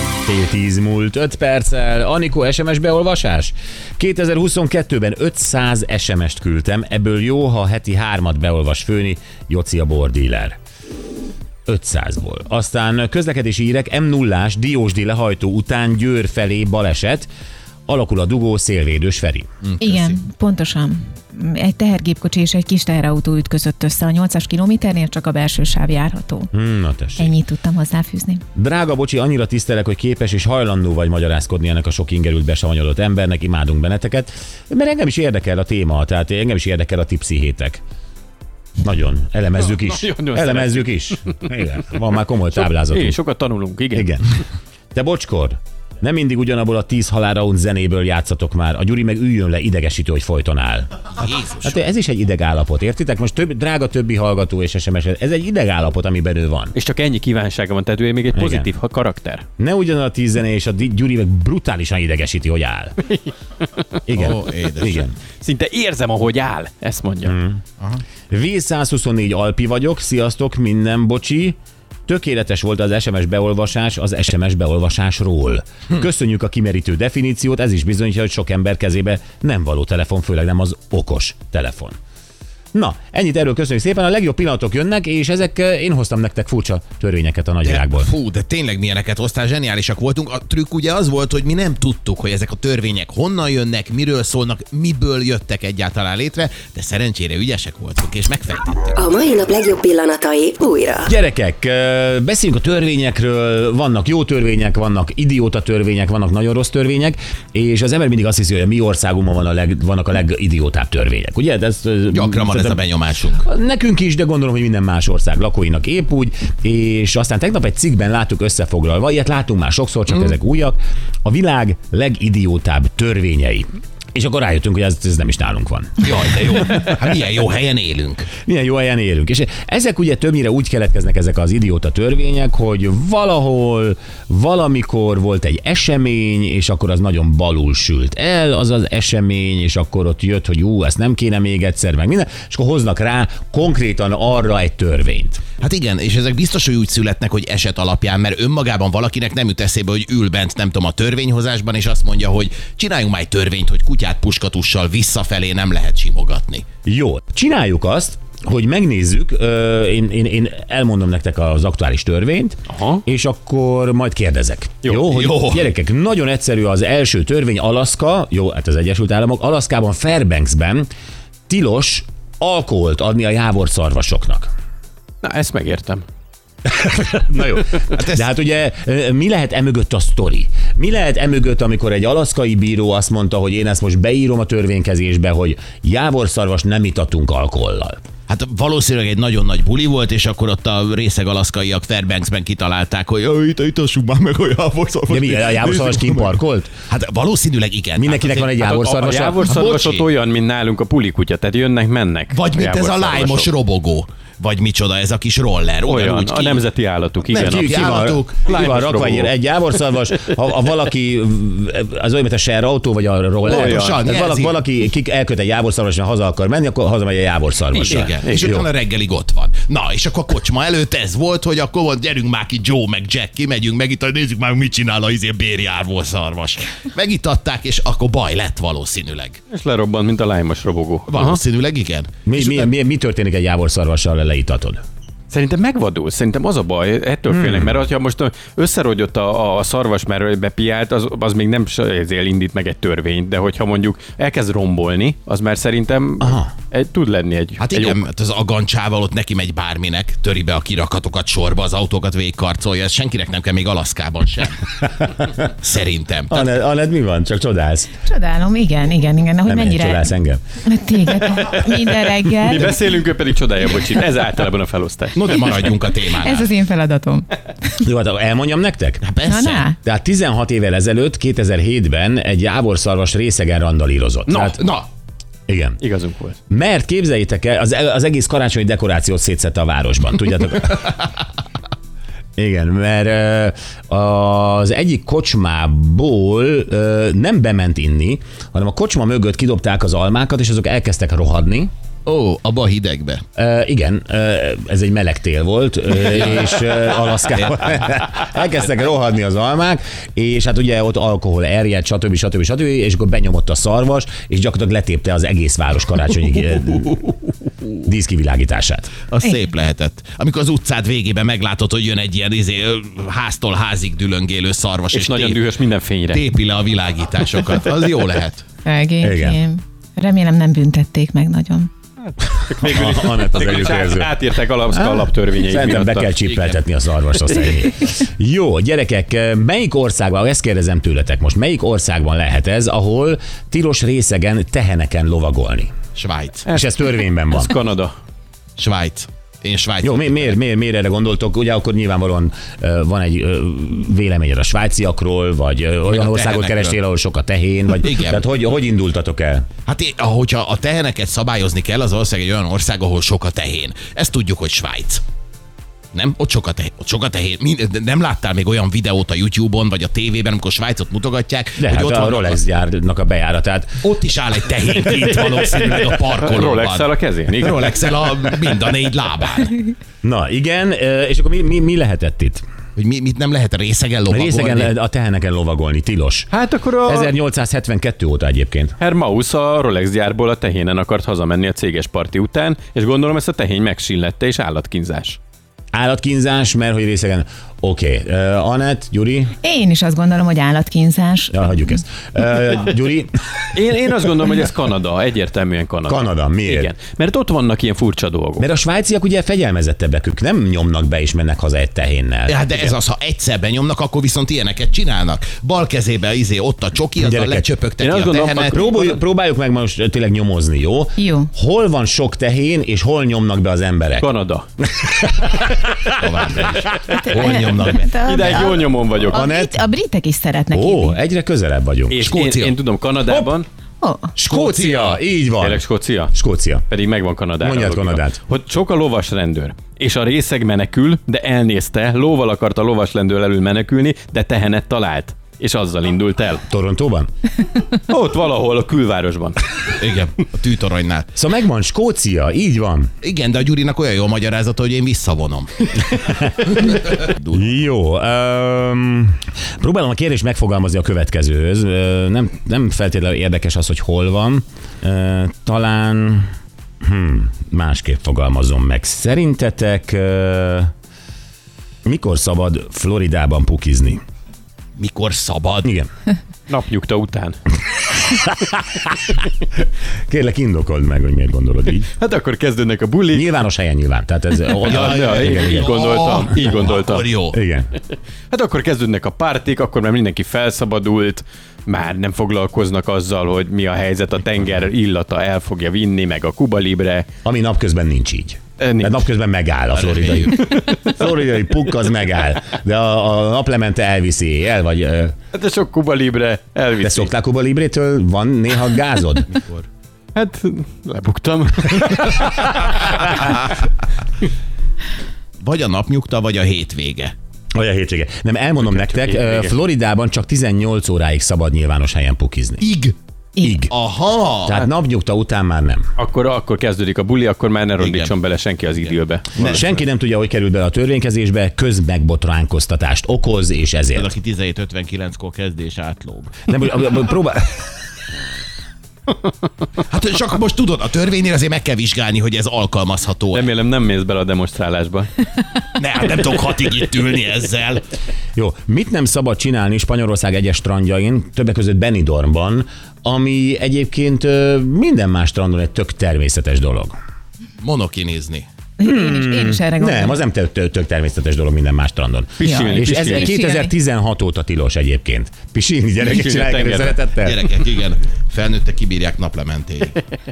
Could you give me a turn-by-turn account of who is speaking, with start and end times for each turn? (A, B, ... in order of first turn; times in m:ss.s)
0:00.2-0:10.6 A
0:11.6-0:17.3 A
0:17.9-0:19.5 A
0:19.6-0:20.2 B
0:19.8-0:26.5 C
0:26.5-0:27.3 A
0:27.2-0:28.4 C
0:28.6-0:37.8 A
0:38.8-0:43.2 A
0:39.6-0:41.4 D
0:42.5-0:44.2 D
0:43.9-0:44.2 A
0:44.9-0:56.7 A
0:51.2-0:51.7 B
0:56.7-0:59.4 D
0:58.3-0:58.7 A
0:59.6-1:02.9 A
1:04.1-1:05.2 A
1:04.1-1:05.1 B
1:05.4-1:07.4 D
1:07.2-1:07.6 A
1:08.3-1:22.0 A
1:22.7-1:28.1 A
1:27.6-1:38.8 B
1:38.9-1:41.1 E
1:41.0-1:52.8 A
1:52.1-1:53.4 B
1:53.3-2:06.3 A
2:06.0-2:08.3 B
2:08.4-2:25.4 A
2:25.6-2:36.7 B
2:36.8-2:50.9 A
2:42.7-2:43.0 D
2:45.1-2:45.7 B
2:51.5-2:54.5 A
2:55.2-2:56.0 D
2:56.7-3:08.0 A
2:57.9-2:58.3 B
3:08.3-3:18.6 B
3:15.1-3:16.7 A
3:18.0-3:19.4 A
3:18.6-3:23.5 D
3:19.2-3:20.1 B
3:22.3-3:26.6 B
3:25.8-3:27.9 D
3:27.3-3:28.6 B
3:27.3-3:38.7 A
3:28.4-3:29.3 D
3:33.4-3:34.0 D
3:33.5-3:34.6 B
3:37.7-3:38.6 D
3:37.9-3:49.4 B
3:49.5-3:51.4 D
3:51.1-3:52.7 B
3:52.2-3:54.8 A
3:55.3-4:08.0 D
3:57.3-3:57.8 A
4:06.2-4:06.5 A
4:07.6-4:14.8 B
4:14.8-4:15.4 A
4:15.4-4:16.4 B
4:16.3-4:17.9 A
4:18.0-4:20.1 C
4:19.4-4:20.4 A
4:20.6-4:22.8 C
4:21.2-4:25.8 D
4:25.1-4:26.5 B
4:26.1-4:27.3 C
4:27.8-4:29.1 A
4:29.0-4:29.6 B
4:29.2-4:29.8 C
4:29.8-4:34.6 A
4:34.3-4:34.5 D
4:34.4-4:34.9 B
4:35.5-4:35.8 A
4:35.8-4:36.4 D
4:36.5-4:41.0 A
4:42.4-4:51.7 A
4:52.0-4:53.2 B
4:53.4-5:07.2 A
4:56.1-4:57.7 B
5:07.8-5:08.9 A
5:09.1-5:15.5 B
5:14.9-5:16.2 D
5:16.1-5:18.4 B
5:18.6-5:21.7 C
5:19.0-5:19.4 A
5:22.2-5:26.4 D
5:22.6-5:24.2 A
5:24.7-5:35.7 A
5:36.0-5:36.5 B
5:36.5-5:37.5 A
5:37.3-5:37.9 D
5:38.6-5:40.4 B
5:39.8-5:49.5 A
5:45.9-5:46.8 B
5:47.8-5:48.2 B
5:49.7-5:55.0 B
5:55.9-6:02.4 B
6:01.6-6:03.9 A
6:03.8-6:09.6 B
6:05.3-6:07.9 D
6:10.0-6:12.4 A
6:12.8-6:14.7 B
6:14.1-6:16.3 A
6:16.3-6:17.1 D
6:16.8-6:18.7 A
6:18.8-6:25.2 D
6:25.7-6:29.3 A
6:29.4-6:31.7 C
6:31.3-6:33.1 A
6:33.5-6:38.5 D
6:35.9-6:36.7 A
6:38.4-6:42.7 A
6:42.3-6:48.6 B
6:47.0-6:47.4 A
6:47.8-6:49.0 D
6:48.5-6:54.1 A
6:51.0-6:51.3 C
6:54.0-6:54.5 D
6:54.7-6:57.0 A
6:56.0-6:57.9 B
6:56.9-7:01.0 C
6:58.0-6:59.2 D
6:59.1-6:59.6 A
7:00.5-7:02.1 A
7:01.9-7:03.5 D
7:02.0-7:02.6 B
7:03.1-7:03.3 A
7:03.8-7:04.1 C
7:04.2-7:06.6 A
7:04.3-7:06.1 D
7:06.7-7:16.4 D
7:07.4-7:08.2 A
7:16.5-7:17.1 A
7:17.8-7:19.6 D
7:19.8-7:21.1 B
7:21.1-7:22.9 A
7:23.0-7:26.0 B
7:26.0-7:36.3 A
7:26.6-7:27.2 B
7:36.8-7:40.7 A
7:41.8-7:44.0 A
7:44.8-7:45.7 B
7:45.6-7:45.9 A
7:46.5-7:47.4 D
7:47.9-7:48.9 A
7:50.1-7:51.9 A
7:52.0-7:53.3 D
7:53.1-7:55.7 A
7:54.5-7:57.1 D
7:54.6-7:57.4 B
7:57.3-7:57.7 A
7:58.3-8:07.1 D
8:07.2-8:15.2 A
8:08.6-8:09.1 D
8:09.7-8:10.4 B
8:10.4-8:10.9 D
8:15.3-8:17.1 D
8:16.8-8:19.3 A
8:19.3-8:19.6 B
8:20.1-8:23.4 D
8:25.4-8:27.1 B
8:27.5-8:32.6 A
8:28.6-8:29.5 D
8:32.6-8:32.9 B
8:33.4-8:33.7 A
8:33.7-8:34.6 B
8:34.4-8:35.9 A
8:36.0-8:39.6 D
8:37.8-8:38.2 B
8:38.8-8:39.7 B
8:39.4-8:44.1 A
8:43.9-8:46.5 B
8:46.5-8:47.6 A
8:49.9-8:53.4 B
8:53.3-8:55.2 D
8:55.8-8:57.8 B
8:58.4-9:07.0 A
9:07.6-9:08.4 B
9:08.8-9:10.2 C
9:08.8-9:17.4 A
9:12.4-9:13.3 D
9:12.4-9:13.7 C
9:16.0-9:17.0 D
9:17.2-9:20.0 B